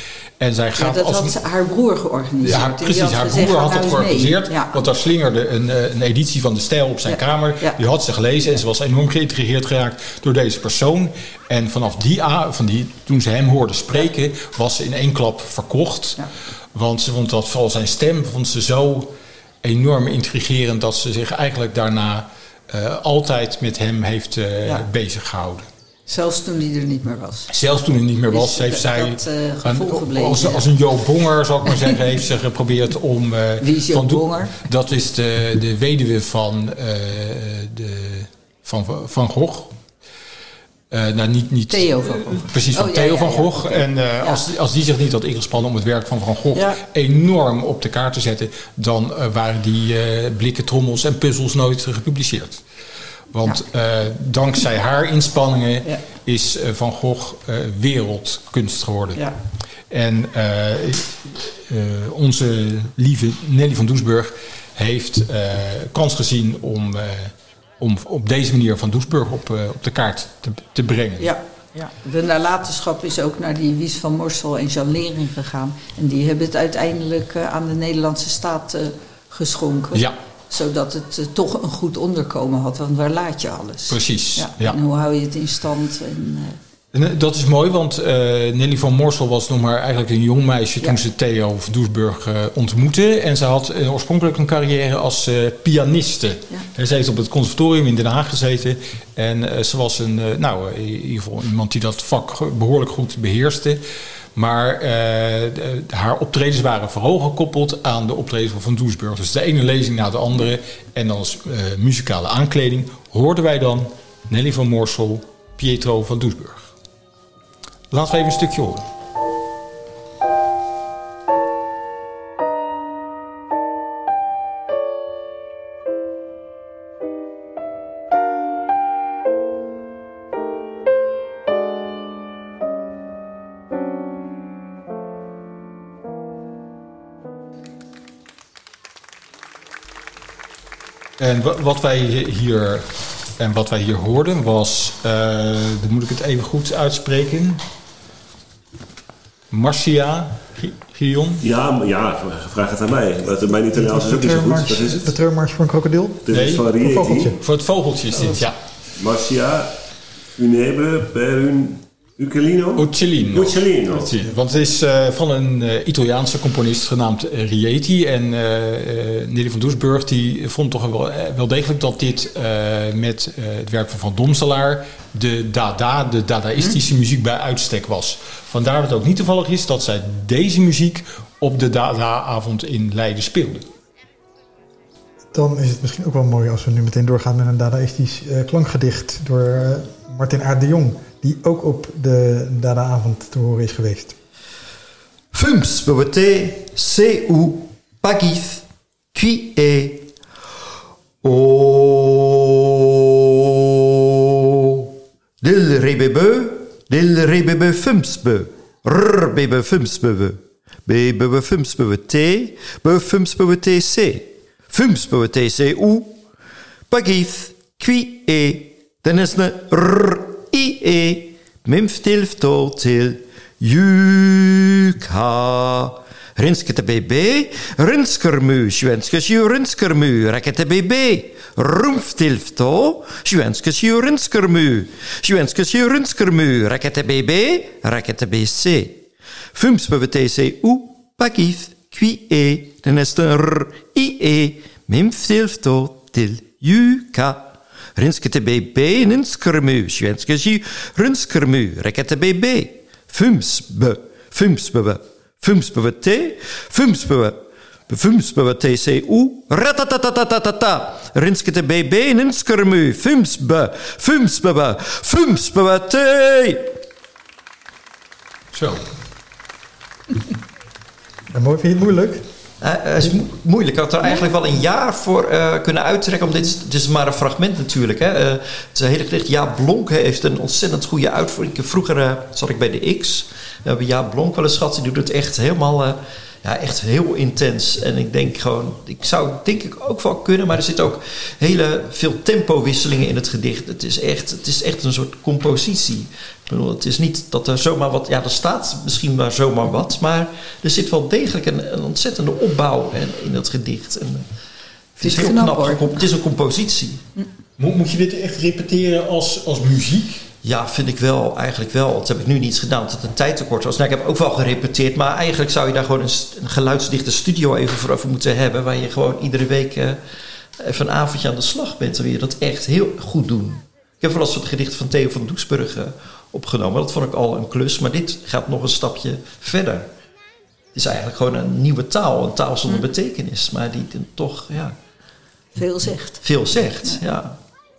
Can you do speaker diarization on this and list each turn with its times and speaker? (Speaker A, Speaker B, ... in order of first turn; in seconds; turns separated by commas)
Speaker A: 0.4-1.3, Speaker B: 0.8-4.8, Speaker A: 2.4-16.2, Speaker B: 7.0-7.8, Speaker A: 16.7-19.1, Speaker A: 19.6-25.7, Speaker B: 26.1-27.5, Speaker A: 27.5-39.7, Speaker B: 28.3-30.6, Speaker B: 33.6-34.5, Speaker A: 40.9-52.6, Speaker B: 41.7-44.4, Speaker B: 46.5-46.8, Speaker A: 53.3-59.2, Speaker A: 59.9-71.3, Speaker B: 71.2-86.6, Speaker A: 83.9-84.8, Speaker A: 86.9-103.8, Speaker A: 104.3-116.7, Speaker A: 117.9-118.8, Speaker A: 141.2-142.9, Speaker A: 143.4-147.6, Speaker A: 149.5-151.4, Speaker C: 151.4-155.1, Speaker D: 153.7-157.4, Speaker C: 156.2-157.3, Speaker A: 156.3-156.7, Speaker A: 157.4-158.6, Speaker C: 158.9-159.7, Speaker C: 160.3-164.1, Speaker A: 162.8-183.6, Speaker D: 185.3-194.1, Speaker E: 195.3-200.1, Speaker E: 201.2-203.7, Speaker E: 204.4-204.9, Speaker E: 205.4-216.2, Speaker E: 216.9-239.0, Speaker E: 239.5-266.7, Speaker A: 268.5-268.8, Speaker D: 271.3-272.2, Speaker E: 272.6-304.2, Speaker E: 304.9-307.0, Speaker B: 305.0-305.8, Speaker A: 307.6-310.2, Speaker E: 310.4-320.0, Speaker E: 320.6-329.9, Speaker E: 330.7-334.8, Speaker B: 335.5-336.2, Speaker E: 336.2-337.4